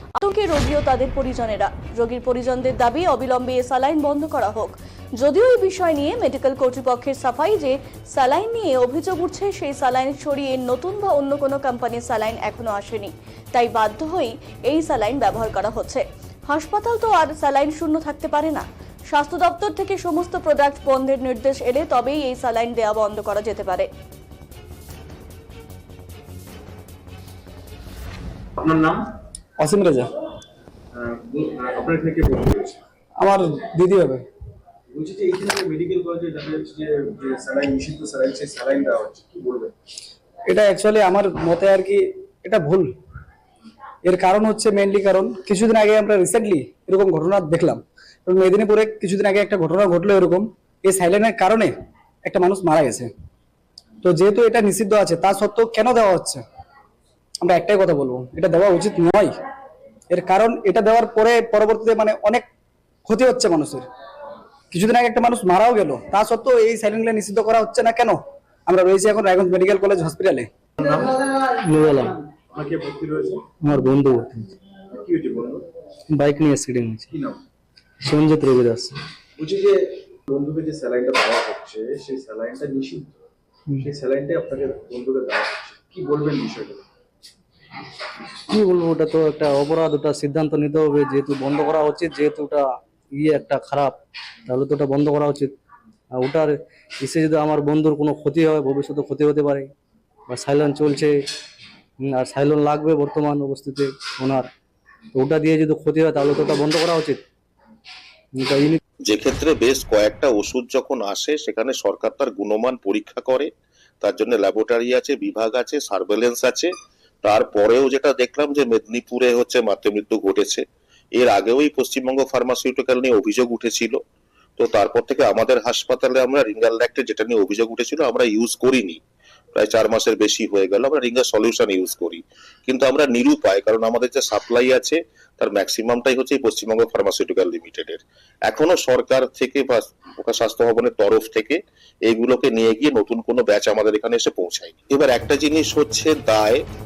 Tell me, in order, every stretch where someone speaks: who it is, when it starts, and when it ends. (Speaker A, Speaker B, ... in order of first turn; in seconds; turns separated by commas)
Speaker A: 0.2-23.9, Speaker B: 28.6-29.1, Speaker C: 29.6-30.1, Speaker B: 30.9-32.8, Speaker C: 33.2-34.2, Speaker B: 34.9-39.7, Speaker C: 40.5-42.9, Speaker C: 44.0-51.7, Speaker C: 52.2-53.1, Speaker C: 54.0-56.4, Speaker C: 57.4-59.3, Speaker C: 60.1-62.5, Speaker C: 63.1-63.9, Speaker C: 64.7-70.5, Speaker D: 71.6-72.2, Speaker B: 72.5-73.5, Speaker D: 73.6-74.5, Speaker B: 74.9-75.7, Speaker D: 76.1-77.1, Speaker B: 77.1-77.4, Speaker D: 78.0-79.0, Speaker B: 79.4-83.2, Speaker B: 83.8-86.8, Speaker D: 88.5-94.0, Speaker D: 94.5-95.5, Speaker D: 96.2-99.7, Speaker D: 100.3-101.2, Speaker D: 102.0-104.5, Speaker D: 105.2-107.2, Speaker D: 108.4-108.8, Speaker E: 109.0-116.7, Speaker E: 117.2-120.6, Speaker E: 121.2-124.0, Speaker E: 124.6-129.0, Speaker E: 129.6-146.6